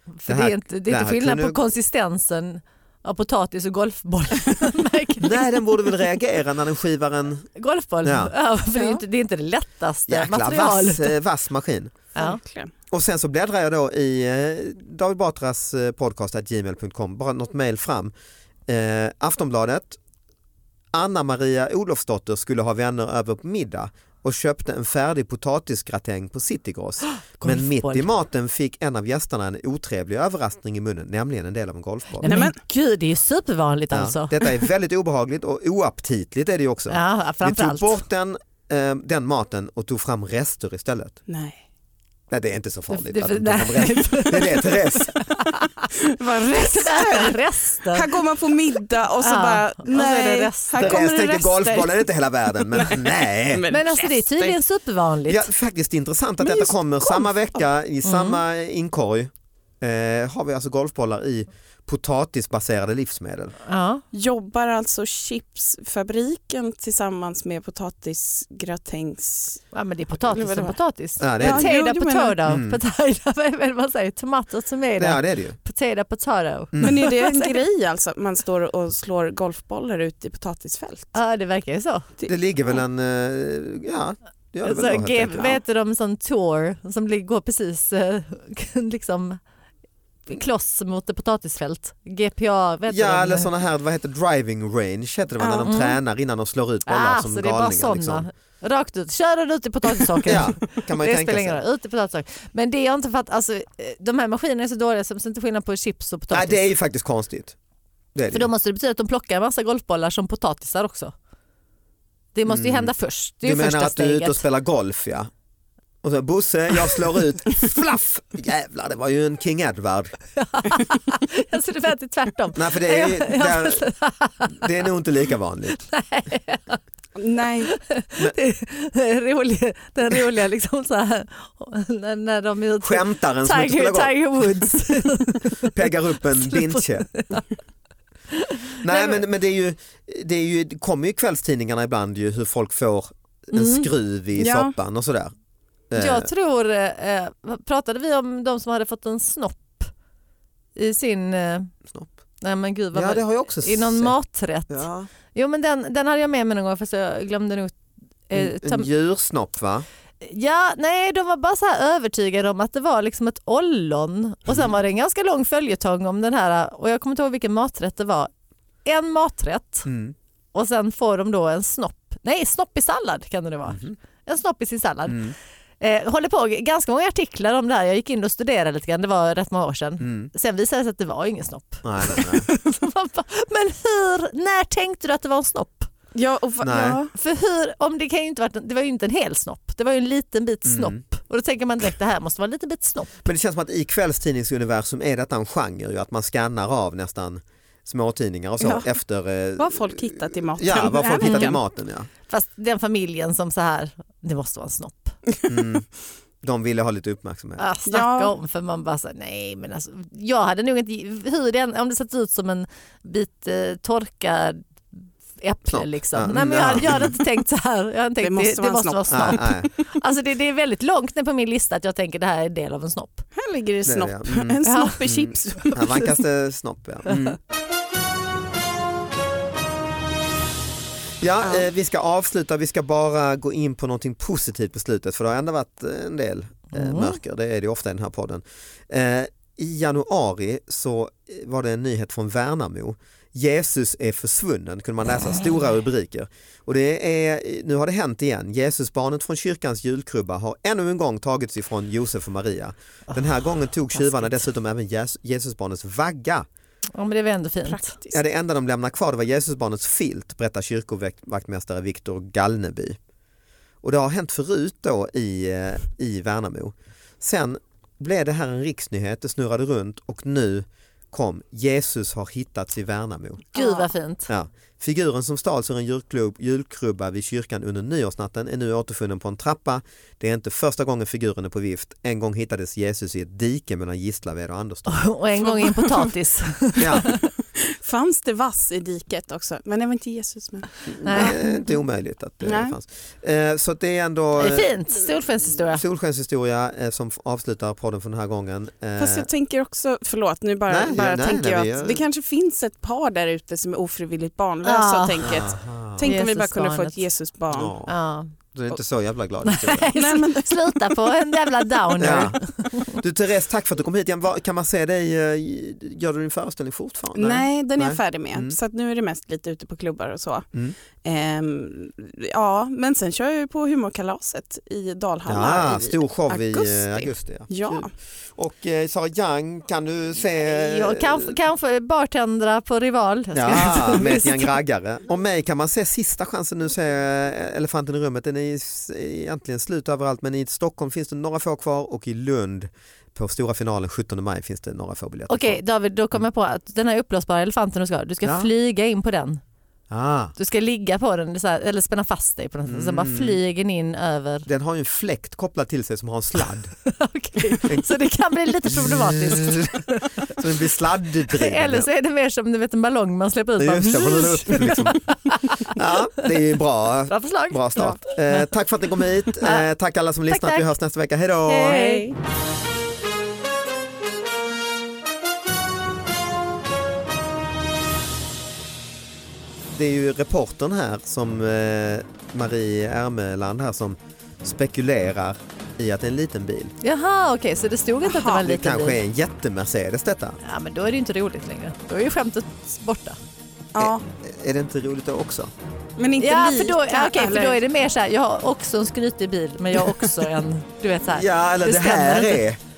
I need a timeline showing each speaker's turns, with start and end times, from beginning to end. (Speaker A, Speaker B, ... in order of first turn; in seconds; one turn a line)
Speaker A: 0.2-5.7
Speaker B: 0.3-1.6
Speaker B: 5.2-7.5
Speaker A: 7.6-11.1
Speaker B: 8.0-8.3
Speaker C: 8.7-9.0
Speaker B: 10.1-12.0
Speaker C: 12.1-12.7
Speaker B: 12.9-18.1
Speaker B: 18.7-20.0
Speaker B: 20.9-32.4
Speaker A: 27.4-28.1
Speaker A: 32.2-34.6
Speaker C: 32.2-32.6
Speaker B: 33.9-41.2
Speaker A: 36.9-38.0
Speaker C: 41.3-41.6
Speaker B: 42.3-45.1
Speaker A: 42.9-48.1
Speaker C: 45.9-52.1
Speaker A: 49.2-51.0
Speaker B: 50.8-53.6
Speaker C: 52.7-54.6
Speaker A: 53.7-55.5
Speaker B: 55.3-63.5
Speaker A: 58.0-58.4
Speaker A: 63.6-64.0
Speaker C: 64.1-69.6
Speaker A: 69.7-77.6
Speaker C: 70.3-70.8
Speaker B: 71.2-71.7
Speaker C: 71.4-72.4
Speaker B: 72.5-72.8
Speaker B: 75.0-75.6
Speaker B: 76.7-77.0
Speaker C: 76.8-81.1
Speaker A: 81.1-82.1
Speaker B: 82.3-85.6
Speaker A: 84.6-89.4
Speaker A: 90.3-93.5
Speaker B: 92.9-98.3
Speaker C: 95.4-95.8
Speaker A: 95.7-96.0
Speaker A: 96.9-106.6
Speaker B: 100.2-101.6
Speaker B: 106.3-107.6
Speaker B: 108.1-108.5
Speaker A: 108.3-111.1
Speaker A: 112.3-114.4
Speaker B: 112.5-115.3
Speaker B: 116.0-120.1
Speaker A: 120.4-124.7
Speaker B: 122.5-123.8
Speaker B: 124.5-125.8
Speaker A: 125.7-126.8
Speaker C: 127.2-127.7
Speaker A: 127.7-135.8
Speaker B: 132.8-137.1
Speaker A: 136.4-137.5
Speaker A: 138.3-139.2
Speaker B: 138.8-145.3
Speaker A: 143.5-143.9
Speaker C: 144.4-144.7
Speaker B: 145.9-146.3
Speaker A: 145.9-149.9
Speaker A: 150.8-151.7
Speaker A: 152.4-157.8
Speaker B: 152.9-154.1
Speaker B: 154.7-155.1
Speaker A: 158.3-158.9
Speaker B: 158.3-159.9
Speaker A: 160.2-168.3
Speaker A: 168.8-169.9
Speaker B: 169.8-170.1
Speaker A: 170.5-185.9
Speaker B: 173.7-173.9
Speaker B: 175.1-175.3
Speaker B: 180.0-180.3
Speaker B: 181.8-182.5
Speaker C: 186.1-187.1
Speaker B: 186.6-187.0
Speaker A: 187.1-193.2
Speaker B: 190.7-191.0
Speaker B: 193.2-202.1
Speaker C: 198.6-198.9
Speaker C: 199.6-201.6
Speaker A: 201.2-201.5
Speaker A: 202.3-205.2
Speaker B: 205.5-205.9
Speaker B: 206.4-207.7
Speaker A: 207.6-223.3
Speaker C: 207.9-208.3
Speaker B: 215.7-217.2
Speaker C: 218.2-219.5
Speaker B: 219.1-219.7
Speaker C: 223.3-225.8
Speaker B: 223.8-227.4
Speaker A: 224.7-224.9
Speaker B: 231.2-256.4
Speaker A: 236.7-237.2
Speaker A: 253.9-254.5
Speaker A: 256.9-257.9
Speaker C: 257.6-258.2
Speaker B: 258.1-263.0
Speaker B: 263.8-285.1
Speaker A: 273.5-274.3
Speaker A: 284.9-287.2
Speaker C: 285.4-286.1
Speaker B: 286.8-287.1
Speaker C: 287.5-291.3
Speaker B: 290.9-299.3
Speaker A: 291.0-291.5
Speaker C: 292.4-292.8
Speaker A: 294.4-295.8
Speaker C: 299.0-307.8
Speaker B: 300.7-302.0
Speaker A: 304.6-305.2
Speaker B: 305.2-306.1
Speaker A: 306.0-307.0
Speaker B: 307.5-307.9
Speaker A: 307.9-308.3
Speaker B: 308.5-309.9
Speaker A: 309.4-312.9
Speaker C: 309.9-311.0
Speaker B: 312.0-318.6
Speaker C: 317.1-320.5
Speaker C: 321.0-327.9
Speaker B: 325.3-331.4
Speaker A: 330.4-334.6
Speaker B: 333.3-345.6
Speaker A: 345.3-349.4
Speaker B: 348.2-348.5
Speaker B: 349.9-350.4
Speaker A: 350.4-354.5
Speaker B: 352.6-353.4
Speaker B: 354.4-356.7
Speaker A: 356.9-360.4
Speaker B: 357.5-357.9
Speaker B: 358.7-361.9
Speaker A: 361.3-365.8
Speaker B: 363.6-365.0
Speaker B: 365.6-371.9
Speaker A: 367.1-368.4
Speaker A: 369.3-369.7
Speaker A: 370.3-370.7
Speaker A: 371.4-372.1
Speaker C: 371.7-372.1
Speaker B: 379.7-386.7
Speaker A: 386.8-389.0
Speaker C: 388.0-388.4
Speaker B: 388.4-390.4
Speaker A: 390.4-393.2
Speaker C: 393.7-394.0
Speaker B: 393.8-395.5
Speaker C: 396.0-397.6
Speaker A: 396.2-402.4
Speaker B: 401.1-402.6